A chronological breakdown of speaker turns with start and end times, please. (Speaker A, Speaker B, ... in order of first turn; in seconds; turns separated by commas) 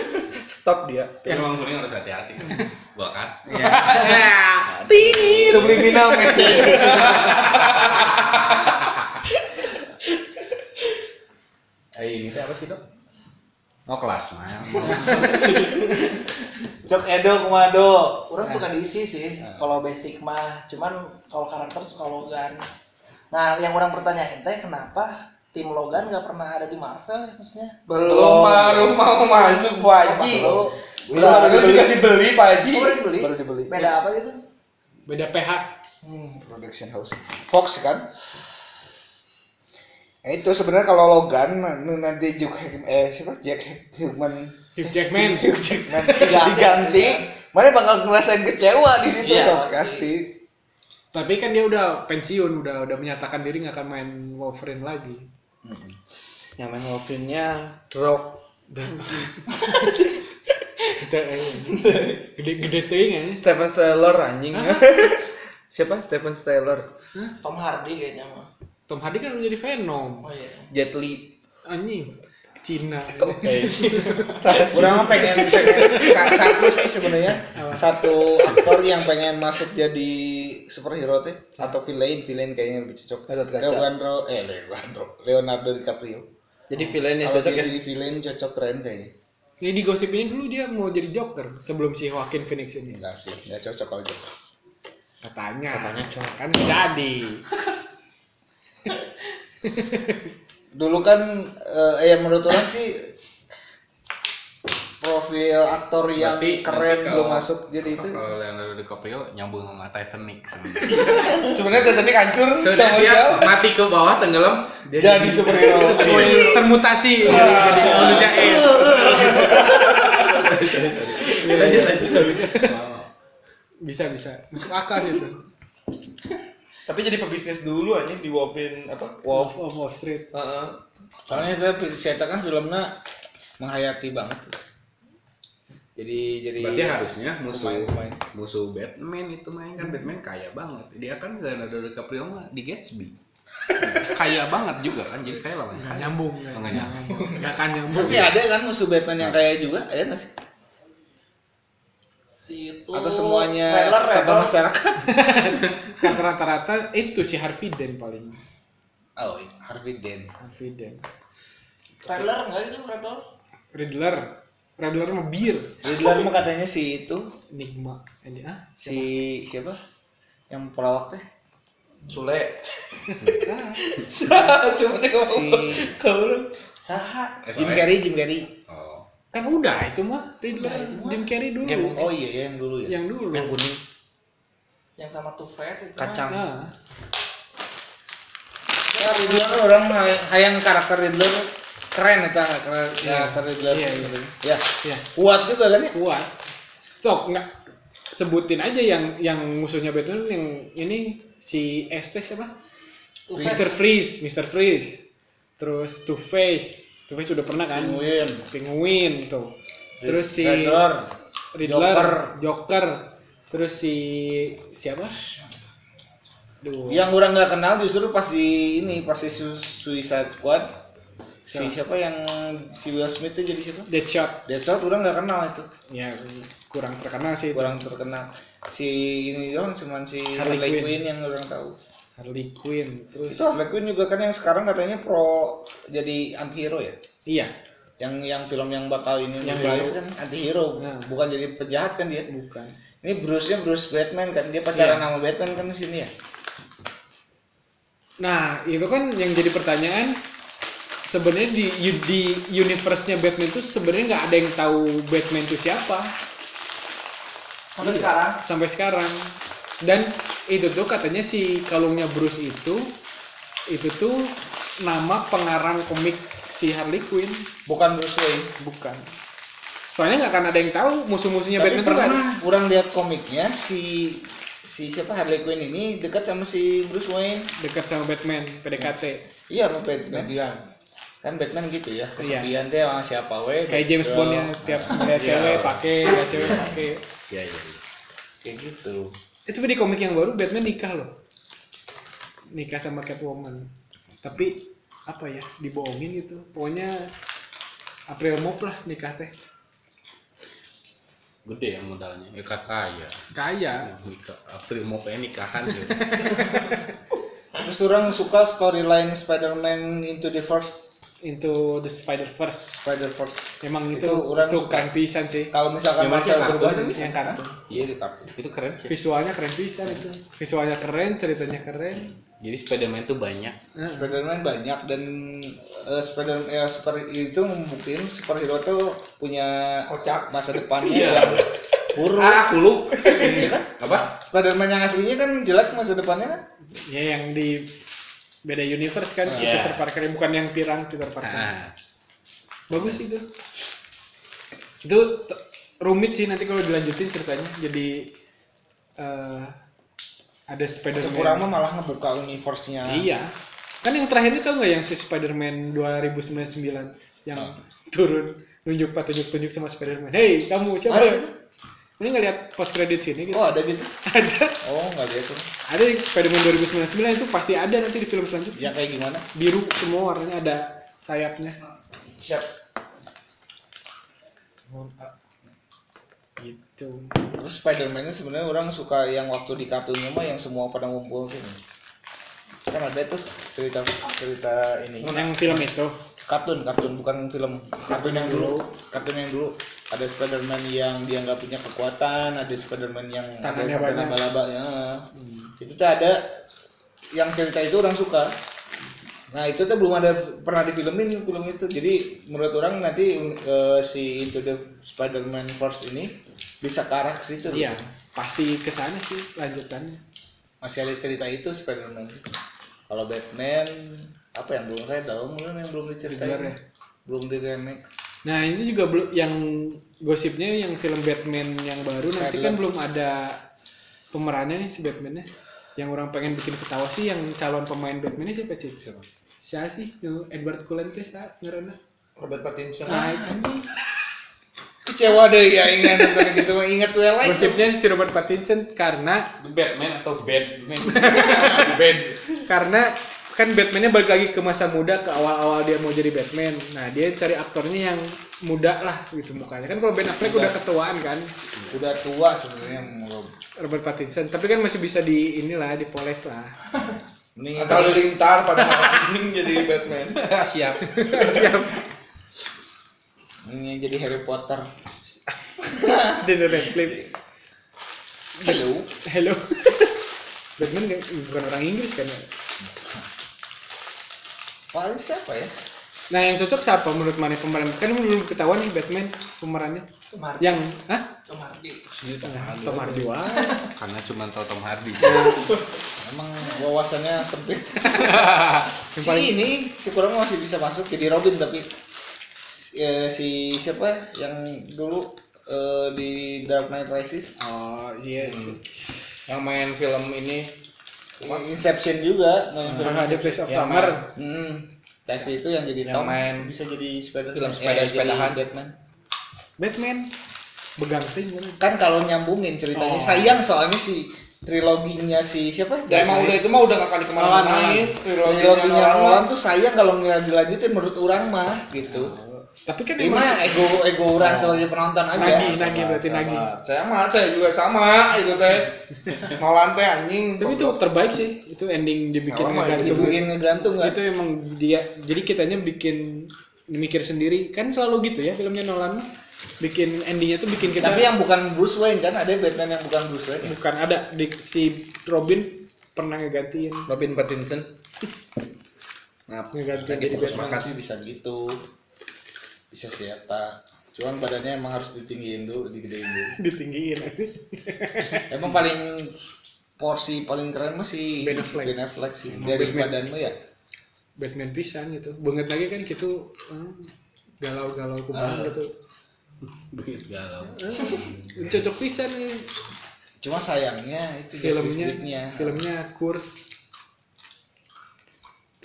Speaker A: 0.3-1.2, Speaker B: 1.2-4.0, Speaker A: 3.5-4.2, Speaker C: 3.5-7.2, Speaker B: 4.9-6.0, Speaker D: 5.4-7.8, Speaker A: 5.5-8.7, Speaker B: 7.0-7.5, Speaker B: 11.9-12.8, Speaker B: 13.8-15.4, Speaker C: 14.9-15.2, Speaker E: 14.9-15.8, Speaker D: 15.0-16.1, Speaker A: 15.2-15.6, Speaker D: 16.8-18.3, Speaker E: 18.3-22.6, Speaker B: 19.4-19.7, Speaker E: 23.3-27.8, Speaker A: 27.9-33.9, Speaker D: 27.9-29.1, Speaker E: 29.1-32.0, Speaker D: 30.0-32.1, Speaker E: 32.7-34.4, Speaker C: 35.0-35.7, Speaker D: 36.0-38.1, Speaker D: 40.2-50.4, Speaker C: 44.8-46.1, Speaker E: 46.0-47.2, Speaker E: 49.2-50.1, Speaker C: 51.1-55.3, Speaker D: 55.6-56.0, Speaker A: 56.6-58.5, Speaker C: 58.7-59.9, Speaker C: 61.0-63.5, Speaker D: 61.8-62.1, Speaker A: 63.4-66.9, Speaker C: 64.5-64.9, Speaker E: 67.4-68.5, Speaker C: 68.9-70.3, Speaker E: 70.2-70.7, Speaker A: 70.7-71.3, Speaker C: 71.7-74.7, Speaker A: 73.2-73.5, Speaker B: 73.4-74.3, Speaker A: 74.2-76.7, Speaker D: 74.7-86.3, Speaker C: 75.3-76.3, Speaker C: 77.5-78.0, Speaker A: 83.3-83.9, Speaker A: 86.7-87.7, Speaker D: 86.8-89.1, Speaker C: 89.6-93.0, Speaker D: 92.9-94.3, Speaker C: 95.2-97.5, Speaker C: 99.6-100.3, Speaker D: 100.7-103.1, Speaker D: 105.0-108.2, Speaker B: 106.2-111.9, Speaker A: 111.3-113.8, Speaker B: 112.5-116.6, Speaker D: 115.0-116.6, Speaker A: 115.5-116.6, Speaker C: 116.0-118.8, Speaker A: 117.2-122.4, Speaker D: 117.3-119.8, Speaker B: 117.3-123.1, Speaker C: 121.3-122.7, Speaker C: 123.8-125.4, Speaker A: 126.8-129.5, Speaker C: 129.3-130.3, Speaker A: 130.3-130.8, Speaker D: 131.3-132.9, Speaker D: 133.6-134.5, Speaker D: 135.9-138.2, Speaker B: 136.6-143.1, Speaker D: 143.8-144.2, Speaker B: 143.9-148.3, Speaker C: 145.7-148.3, Speaker D: 147.9-150.3, Speaker E: 152.3-154.6, Speaker D: 152.9-155.3, Speaker C: 155.0-158.4, Speaker D: 159.2-160.3, Speaker C: 160.4-161.0, Speaker E: 162.0-163.2, Speaker C: 163.7-166.1, Speaker D: 165.8-167.3, Speaker C: 167.5-169.1, Speaker D: 168.8-169.8, Speaker D: 170.5-171.2, Speaker A: 172.0-176.5, Speaker C: 173.2-173.8, Speaker D: 175.2-175.9, Speaker E: 176.8-177.5, Speaker B: 177.4-178.0, Speaker D: 177.5-178.5, Speaker B: 178.7-179.1, Speaker C: 179.3-182.0, Speaker E: 180.6-181.3, Speaker A: 181.6-182.1, Speaker D: 181.9-182.9, Speaker C: 182.8-183.6, Speaker A: 183.3-183.8, Speaker E: 185.0-186.3, Speaker A: 186.0-186.4, Speaker C: 186.3-186.7, Speaker E: 188.9-189.7, Speaker D: 188.9-195.9, Speaker C: 193.0-194.2, Speaker C: 194.8-195.1, Speaker C: 195.9-196.3, Speaker C: 196.9-197.6, Speaker C: 198.1-202.5, Speaker D: 203.3-203.7, Speaker E: 203.3-203.7, Speaker C: 203.4-205.1, Speaker C: 205.6-210.9, Speaker D: 207.7-208.4, Speaker D: 210.0-212.3, Speaker C: 211.5-215.2, Speaker C: 216.6-217.1, Speaker D: 216.8-220.7, Speaker D: 221.5-223.9, Speaker C: 221.5-221.7, Speaker C: 223.9-224.4, Speaker D: 224.4-225.7, Speaker C: 225.9-227.8, Speaker D: 227.5-231.8, Speaker C: 230.3-231.0, Speaker C: 232.2-233.6, Speaker D: 233.3-237.0, Speaker C: 237.3-237.5, Speaker D: 238.0-242.3, Speaker C: 239.4-240.0, Speaker C: 240.8-241.1, Speaker C: 242.3-242.8, Speaker D: 243.0-246.1, Speaker C: 244.7-245.1, Speaker C: 248.2-250.2, Speaker C: 251.1-256.1, Speaker D: 257.8-258.2, Speaker E: 257.8-258.4, Speaker C: 258.4-263.0, Speaker C: 263.7-267.5, Speaker D: 267.6-268.5, Speaker C: 268.6-269.1, Speaker C: 269.9-272.2, Speaker D: 271.6-277.5, Speaker C: 277.6-279.2, Speaker D: 279.5-280.6, Speaker D: 281.2-285.1, Speaker C: 282.2-282.5, Speaker C: 283.7-287.0, Speaker B: 285.0-287.8, Speaker D: 288.4-289.1, Speaker C: 289.4-291.1, Speaker C: 292.5-293.7, Speaker C: 294.2-297.1, Speaker C: 298.1-299.3, Speaker B: 301.4-303.2, Speaker C: 303.3-303.9, Speaker B: 303.8-306.5, Speaker C: 305.9-306.8, Speaker D: 307.6-310.9, Speaker C: 311.2-312.8, Speaker D: 312.7-314.9, Speaker C: 313.6-317.6, Speaker D: 315.5-318.3, Speaker B: 316.0-317.0, Speaker B: 317.7-318.9, Speaker C: 318.9-322.1, Speaker B: 322.4-323.6, Speaker C: 323.8-324.1, Speaker D: 323.8-336.4, Speaker A: 329.9-331.4, Speaker B: 330.8-331.4, Speaker A: 332.2-333.5, Speaker B: 332.2-334.0, Speaker C: 336.7-337.8, Speaker C: 338.4-341.5, Speaker D: 339.3-339.5, Speaker B: 339.3-339.8, Speaker B: 341.2-341.7, Speaker C: 342.7-343.3, Speaker C: 344.8-348.1, Speaker C: 349.0-349.6, Speaker C: 350.5-351.6, Speaker D: 350.9-353.1, Speaker C: 352.8-361.2, Speaker D: 360.9-361.3, Speaker C: 362.0-364.6, Speaker D: 363.3-363.9, Speaker D: 364.6-365.5, Speaker C: 365.7-368.7, Speaker D: 368.5-369.2, Speaker C: 369.3-371.6, Speaker A: 372.2-372.5, Speaker A: 374.7-375.1, Speaker C: 376.4-377.1, Speaker D: 377.3-381.6, Speaker D: 382.7-385.6, Speaker C: 385.0-386.0, Speaker D: 386.2-395.1, Speaker C: 387.8-388.7, Speaker C: 393.4-394.2, Speaker C: 395.1-395.5, Speaker D: 395.6-396.2, Speaker D: 397.1-398.3, Speaker D: 399.3-407.8, Speaker C: 407.5-410.0, Speaker D: 410.6-412.3, Speaker D: 412.9-417.8, Speaker C: 416.0-416.6, Speaker C: 418.2-423.4, Speaker D: 422.1-422.6, Speaker C: 424.1-428.9, Speaker C: 429.4-431.8, Speaker A: 432.2-433.1, Speaker D: 432.9-433.6, Speaker C: 432.9-433.6, Speaker D: 434.8-437.7, Speaker C: 437.2-439.3, Speaker B: 439.4-442.2, Speaker C: 440.9-441.7, Speaker C: 442.4-451.3, Speaker D: 450.2-450.6, Speaker D: 451.7-453.3, Speaker C: 453.6-456.6, Speaker D: 457.4-458.1, Speaker A: 457.6-460.3, Speaker C: 458.6-459.1, Speaker B: 460.1-461.5, Speaker C: 460.8-461.8, Speaker D: 463.4-464.7, Speaker D: 465.6-467.1, Speaker C: 466.0-467.1, Speaker D: 468.4-468.9, Speaker C: 469.0-470.0, Speaker C: 470.6-472.3, Speaker D: 474.7-475.5, Speaker C: 476.1-479.9, Speaker E: 480.1-480.7, Speaker C: 480.4-481.1, Speaker E: 481.2-481.9, Speaker B: 481.9-483.1, Speaker C: 482.2-483.6, Speaker E: 483.3-483.7, Speaker B: 483.7-485.3, Speaker E: 485.0-485.8, Speaker C: 485.0-485.4, Speaker D: 486.0-491.7, Speaker C: 487.8-489.4, Speaker D: 492.4-497.3, Speaker C: 497.4-498.7, Speaker A: 498.3-498.5, Speaker A: 499.3-500.6, Speaker D: 501.2-503.4, Speaker C: 502.7-504.1, Speaker A: 503.4-504.0, Speaker D: 504.1-508.7, Speaker A: 505.9-506.5, Speaker A: 507.3-508.4, Speaker C: 509.6-510.1, Speaker C: 510.8-511.6, Speaker D: 511.6-516.4, Speaker C: 512.7-513.4, Speaker A: 515.9-519.3, Speaker C: 515.9-516.4, Speaker C: 517.1-518.0, Speaker D: 518.2-522.2, Speaker C: 521.9-523.6, Speaker D: 523.0-526.4, Speaker C: 524.1-526.5, Speaker A: 525.2-530.8, Speaker C: 530.4-539.1, Speaker A: 532.3-533.2, Speaker D: 532.7-534.0, Speaker C: 539.6-541.1, Speaker D: 540.7-543.5, Speaker C: 543.4-546.9, Speaker A: 546.9-547.7, Speaker A: 549.3-550.7, Speaker C: 549.5-550.7, Speaker D: 550.1-551.6, Speaker D: 552.7-556.4, Speaker C: 556.4-558.3, Speaker D: 558.3-559.2, Speaker D: 559.8-563.4, Speaker C: 561.2-561.8, Speaker C: 562.3-563.0, Speaker C: 564.2-568.7, Speaker D: 568.1-568.5, Speaker B: 569.4-571.6, Speaker C: 570.5-572.5, Speaker D: 573.2-575.6, Speaker C: 574.4-576.5